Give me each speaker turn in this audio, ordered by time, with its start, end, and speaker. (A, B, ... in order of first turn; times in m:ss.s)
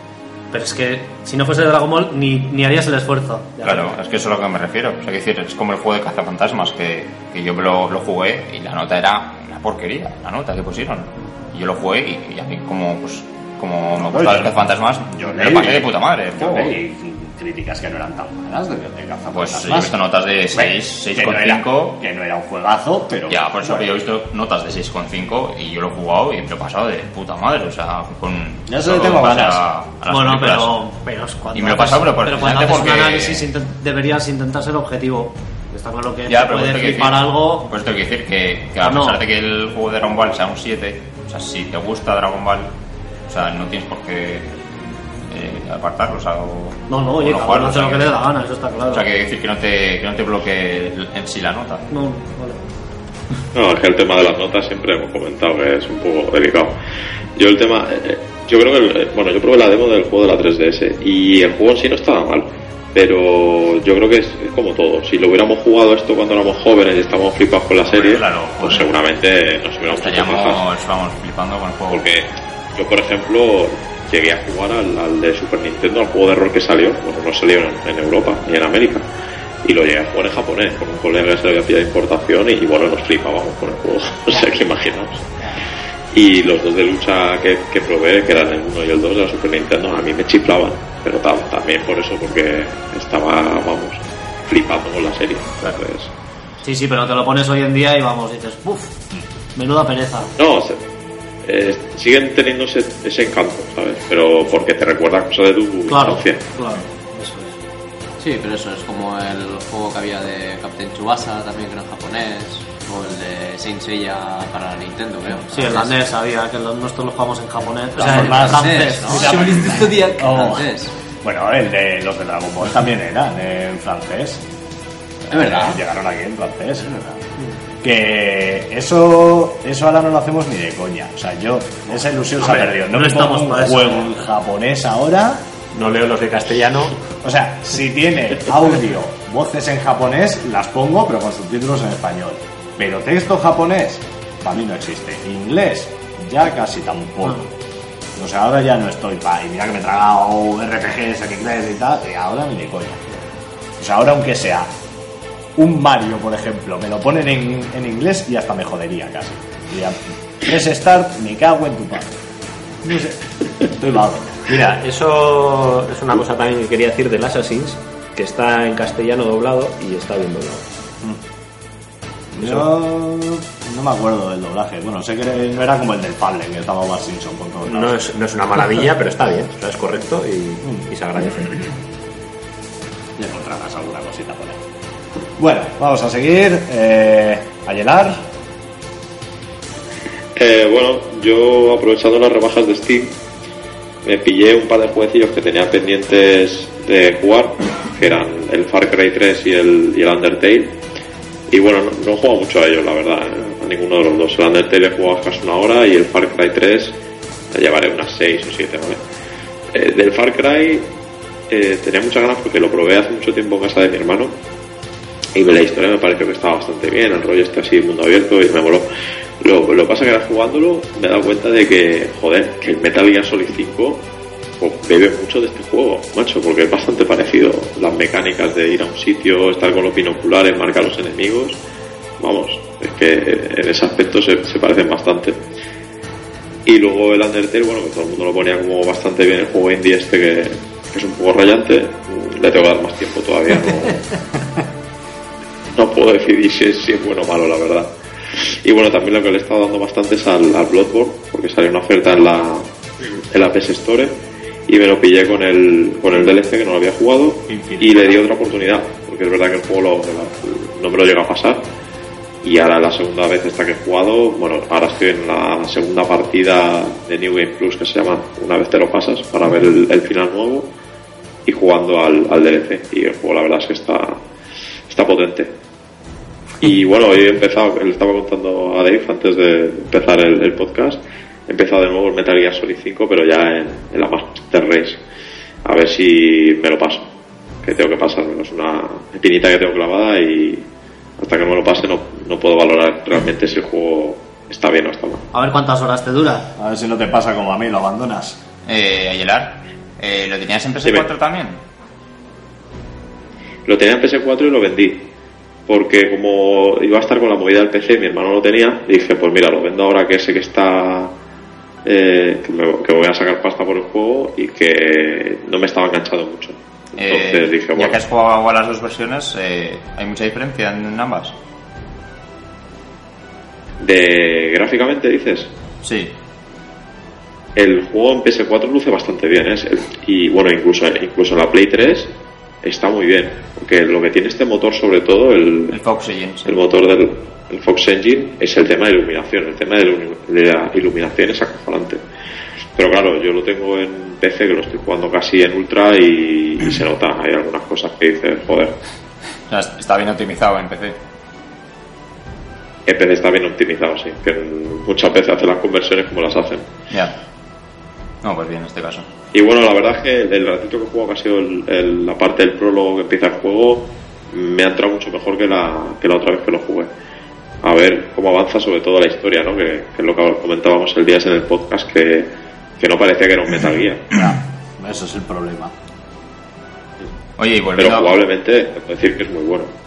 0:00.5-0:03.9 A
0:03.6-0:16.8 B
0:14.0-0:14.6 C
0:15.1-0:20.0 C
0:19.3-0:22.0 B
0:20.5-0:23.9 C
0:23.3-0:30.8 B
0:28.7-0:29.6 C
0:30.1-0:37.7 A
0:31.5-0:33.5 B
0:36.3-0:42.7 B
0:38.8-0:39.2 A
0:43.3-0:44.7 B
0:45.3-0:48.2 B
0:46.9-0:49.1 A
0:48.9-0:51.8 B
0:51.9-0:52.6 A
0:53.5-0:56.7 D
0:57.4-1:10.6 D
1:07.8-1:08.9 B
1:09.9-1:12.1 B
1:11.9-1:19.0 D
1:19.6-1:25.2 D
1:26.1-1:36.1 D
1:36.6-1:39.0 A
1:39.5-1:40.3 A
1:40.4-1:40.8 D
1:41.4-1:46.4 D
1:45.9-1:47.6 A
1:48.2-1:56.1 E
1:55.5-1:59.4 A
1:58.0-2:04.4 C
1:58.1-2:00.9 E
2:05.3-2:07.2 C
2:05.3-2:05.8 E
2:07.8-2:15.5 C
2:12.5-2:14.1 A
2:15.7-2:17.0 F
2:17.2-2:27.4 C
2:28.2-2:33.0 C
2:33.8-2:34.7 C
2:35.6-2:42.1 C
2:42.8-2:43.2 C
2:43.7-2:44.5 C
2:44.5-2:50.6 F
2:52.3-2:58.0 C
2:52.4-2:52.7 F
2:57.6-3:01.7 F
3:03.2-3:04.6 C
3:05.4-3:08.2 C
3:10.3-3:13.1 D
3:14.0-3:20.7 D
3:21.5-3:27.0 D
3:27.5-3:29.0 D
3:29.7-3:30.8 D
3:31.5-3:34.3 D
3:35.3-3:38.8 D
3:39.4-3:44.0 D
3:44.6-3:51.6 D
3:52.2-3:55.3 D
3:56.6-4:04.1 D
4:05.7-4:12.7 D
4:13.3-4:14.1 D
4:14.7-4:21.6 D
4:17.5-4:18.2 B
4:22.4-4:30.7 D
4:31.4-4:34.2 D
4:34.9-4:35.5 D
4:36.6-4:45.0 D
4:45.6-4:47.1 D
4:47.6-4:50.6 D
4:51.2-4:55.2 D
4:55.3-4:56.5 A
4:56.6-4:58.4 C
4:58.6-5:01.6 B
5:00.8-5:01.1 D
5:03.7-5:05.0 D
5:05.7-5:11.1 D
5:11.8-5:18.0 D
5:17.0-5:21.3 B
5:23.8-5:25.5 D
5:25.8-5:26.1 B
5:27.6-5:32.1 D
5:32.6-5:35.8 D
5:35.7-5:36.5 B
5:36.4-5:42.0 D
5:42.8-5:48.8 D
5:49.5-5:51.0 B
5:52.8-5:56.7 D
5:58.2-5:59.0 B
5:59.3-6:06.9 D
6:07.6-6:12.3 D
6:12.8-6:14.1 D
6:14.1-6:15.7 C
6:17.4-6:18.1 B
6:17.8-6:19.7 D